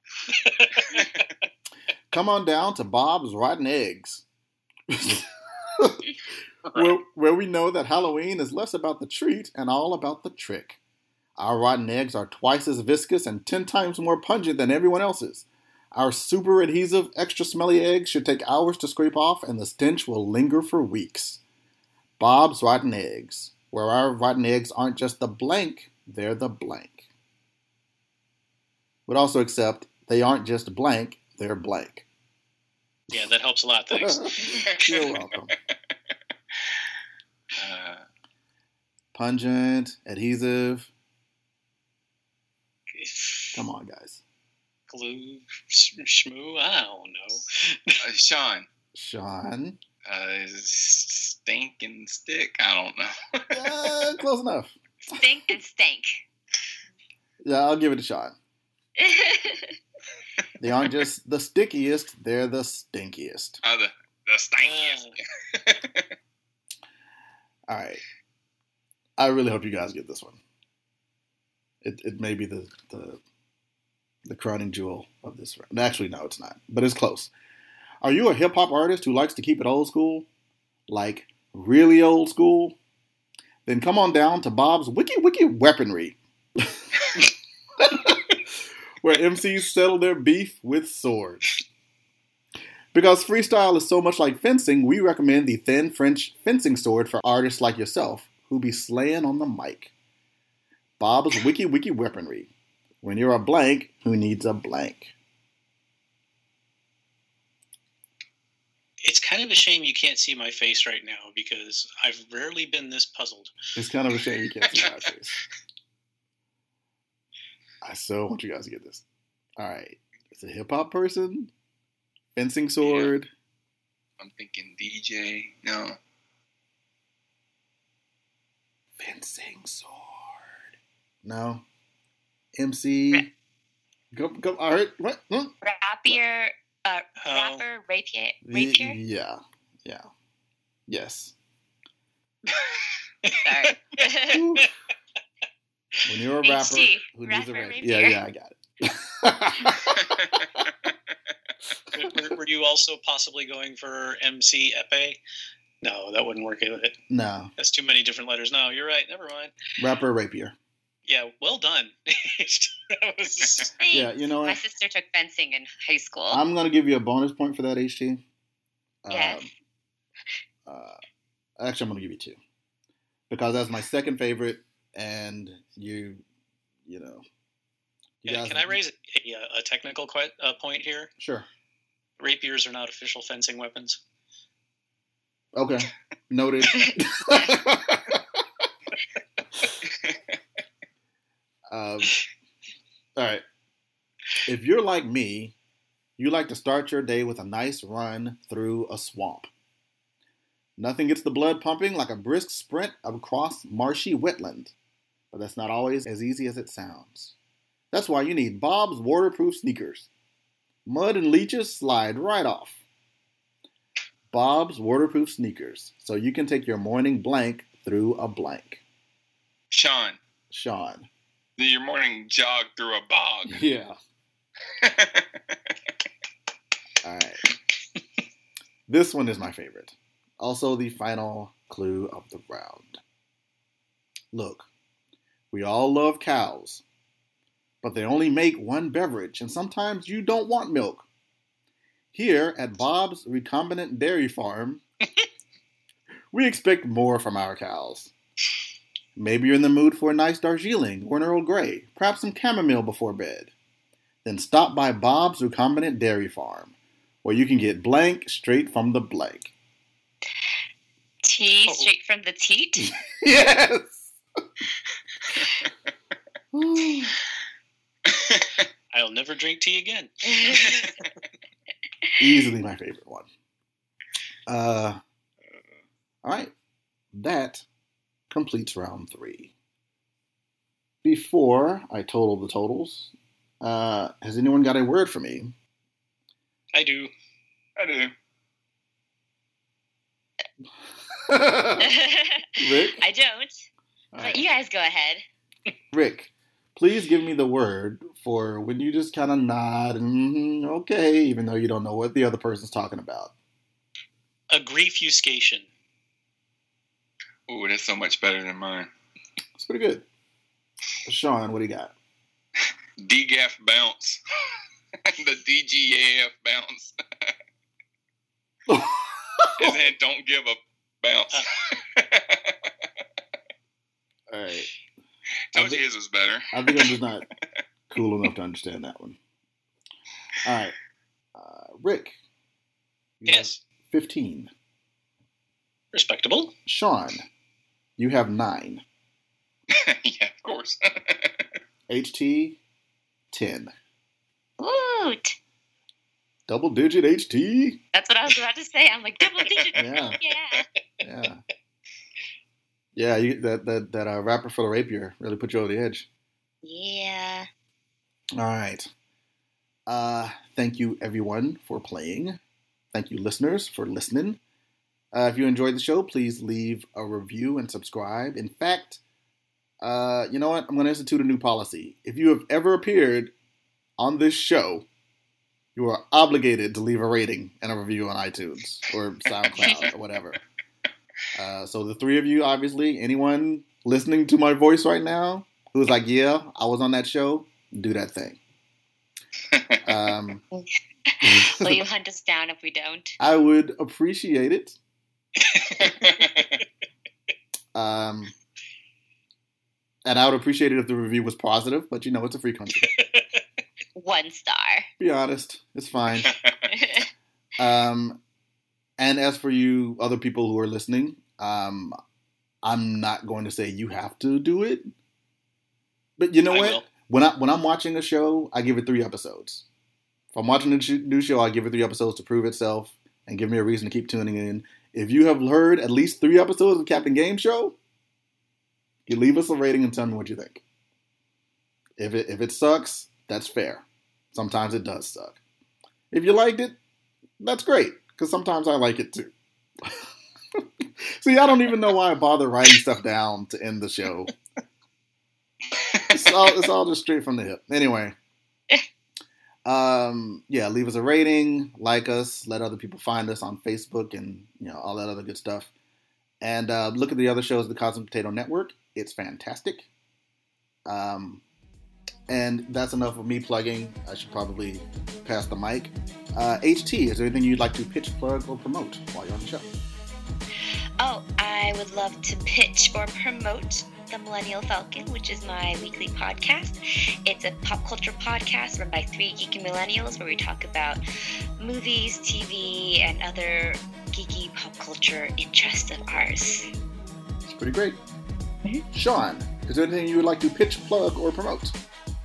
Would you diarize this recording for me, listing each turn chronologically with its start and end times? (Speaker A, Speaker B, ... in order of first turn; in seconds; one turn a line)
Speaker A: 0.3-1.3
Speaker B: 2.1-4.2
Speaker B: 4.9-6.1
Speaker C: 6.7-7.0
Speaker B: 6.7-10.8
Speaker B: 11.4-21.4
Speaker B: 22.2-27.1
Speaker B: 29.1-32.0
Speaker A: 33.1-34.9
Speaker B: 33.9-35.5
Speaker C: 37.5-38.0
Speaker B: 39.1-40.9
Speaker A: 42.9-43.6
Speaker B: 43.5-44.2
Speaker A: 44.9-48.0
Speaker C: 48.0-48.7
Speaker B: 48.9-49.8
Speaker C: 50.0-53.5
Speaker B: 53.5-54.8
Speaker D: 55.0-56.2
Speaker B: 57.4-58.4
Speaker D: 59.0-59.7
Speaker B: 60.6-63.6
Speaker C: 63.6-66.1
Speaker A: 64.6-65.1
Speaker B: 67.7-68.0
Speaker B: 69.2-70.4
Speaker B: 71.8-73.2
Speaker B: 74.2-77.3
Speaker B: 78.0-80.3
Speaker B: 80.9-82.8
Speaker B: 83.7-86.8
Speaker B: 87.8-88.4
Speaker B: 89.0-91.6
Speaker B: 92.9-99.9
Speaker B: 101.0-102.5
Speaker B: 103.0-105.1
Speaker A: 109.0-113.5
Speaker B: 113.8-115.4
Speaker B: 117.8-119.0
Speaker B: 119.6-121.5
Speaker B: 122.3-123.3
Speaker C: 122.8-123.1
Speaker C: 124.2-126.0
Speaker B: 129.0-130.7
Speaker B: 131.2-131.7
Speaker B: 132.6-133.3
Speaker B: 134.1-135.5
Speaker D: 135.6-139.0
Speaker A: 137.2-137.6
Speaker B: 138.4-140.0
Speaker B: 140.9-141.3
Speaker A: 143.2-143.8
Speaker D: 143.3-144.4
Speaker B: 144.3-144.7
Speaker B: 146.0-150.4
Speaker D: 146.4-148.2
Speaker C: 150.0-150.3
Speaker A: 151.9-155.2
Speaker A: 155.8-157.0
Speaker B: 157.1-157.5
Speaker A: 157.6-159.5
Speaker B: 159.8-160.6
Speaker A: 161.1-163.7
Speaker D: 163.8-166.4
Speaker B: 163.9-164.6
Speaker B: 166.3-168.2
Speaker B: 169.0-169.5
Speaker D: 169.1-169.5
Speaker B: 170.7-171.0
Speaker B: 171.6-172.4
Speaker B: 173.3-176.2
Speaker B: 176.8-177.2
Speaker B: 178.2-178.8
Speaker A: 178.2-181.1
Speaker B: 181.2-181.5
Speaker A: 182.2-184.0
Speaker B: 185.5-188.6
Speaker B: 191.7-192.2
Speaker B: 193.2-193.4
Speaker B: 194.4-195.5
Speaker B: 196.2-199.5
Speaker B: 200.8-204.7
Speaker B: 205.3-207.3
Speaker B: 207.9-210.1
Speaker B: 210.8-212.8
Speaker B: 214.3-218.8
Speaker C: 219.7-220.2
Speaker B: 220.5-221.1
Speaker C: 221.6-223.6
Speaker B: 223.5-224.0
Speaker C: 224.8-225.4
Speaker B: 227.0-227.4
Speaker B: 228.9-233.0
Speaker B: 234.3-234.7
Speaker B: 235.5-236.8
Speaker B: 237.8-241.1
Speaker B: 242.1-244.8
Speaker B: 246.3-248.1
Speaker B: 249.2-253.5
Speaker B: 254.2-259.5
Speaker D: 261.2-262.9
Speaker A: 261.6-261.9
Speaker B: 262.8-264.1
Speaker B: 266.5-267.1
Speaker C: 268.1-268.4
Speaker A: 268.9-271.1
Speaker D: 270.3-270.9
Speaker B: 272.2-273.3
Speaker B: 274.5-275.0
Speaker B: 276.2-276.5
Speaker B: 277.1-277.6
Speaker B: 278.3-279.5
Speaker B: 281.0-285.5
Speaker A: 286.7-287.1
Speaker C: 287.8-288.1
Speaker B: 291.2-291.9
Speaker D: 291.8-293.7
Speaker B: 292.6-293.0
Speaker B: 294.1-294.4
Speaker D: 294.2-295.2
Speaker B: 295.9-303.3
Speaker A: 304.5-305.7
Speaker C: 307.5-308.9
Speaker B: 309.6-310.1
Speaker B: 311.1-311.9
Speaker C: 313.0-314.2
Speaker C: 315.1-317.3
Speaker B: 318.7-319.8
Speaker C: 319.6-322.7
Speaker B: 324.3-324.7
Speaker C: 325.5-326.9
Speaker B: 325.5-325.8
Speaker B: 326.5-327.2
Speaker B: 327.9-329.2
Speaker B: 330.4-330.8
Speaker B: 331.3-332.2
Speaker B: 333.2-334.5
Speaker A: 333.3-333.6
Speaker A: 335.9-336.5
Speaker B: 336.6-337.3
Speaker B: 338.0-338.8
Speaker C: 339.7-341.4
Speaker B: 341.9-342.6
Speaker B: 343.3-343.7
Speaker D: 344.6-345.4
Speaker B: 346.5-347.8
Speaker D: 347.9-350.6
Speaker B: 349.7-350.2
Speaker B: 351.0-351.4
Speaker B: 352.9-356.1
Speaker D: 356.6-357.5
Speaker B: 358.4-358.9
Speaker B: 359.9-362.4
Speaker B: 362.9-364.4
Speaker B: 365.1-369.0
Speaker B: 369.8-373.3
Speaker B: 374.0-374.9
Speaker B: 375.8-380.4
Speaker B: 381.3-388.4
Speaker C: 389.5-389.8
Speaker B: 389.8-390.4
Speaker D: 390.5-393.1
Speaker B: 391.2-391.8
Speaker B: 393.2-394.8
Speaker A: 395.4-396.6
Speaker C: 395.9-396.4
Speaker B: 397.7-398.3
Speaker B: 400.0-402.9
Speaker A: 402.7-403.4
Speaker D: 403.9-404.9
Speaker B: 405.0-406.3
Speaker C: 406.2-406.5
Speaker D: 406.7-407.0
Speaker B: 407.6-408.2
Speaker B: 409.0-412.0
Speaker B: 412.6-414.9
Speaker B: 416.2-419.6
Speaker A: 416.5-416.8
Speaker B: 420.3-427.8
Speaker B: 429.1-430.6
Speaker B: 432.0-435.4
Speaker B: 436.1-436.8
Speaker B: 437.4-440.6
Speaker B: 441.2-444.3
Speaker B: 446.1-448.1
Speaker B: 449.6-455.7
Speaker B: 456.4-459.9
Speaker B: 460.9-461.4
Speaker B: 462.3-469.7
Speaker D: 471.0-481.0
Speaker D: 481.6-486.7
Speaker B: 487.5-488.0
Speaker B: 488.9-491.8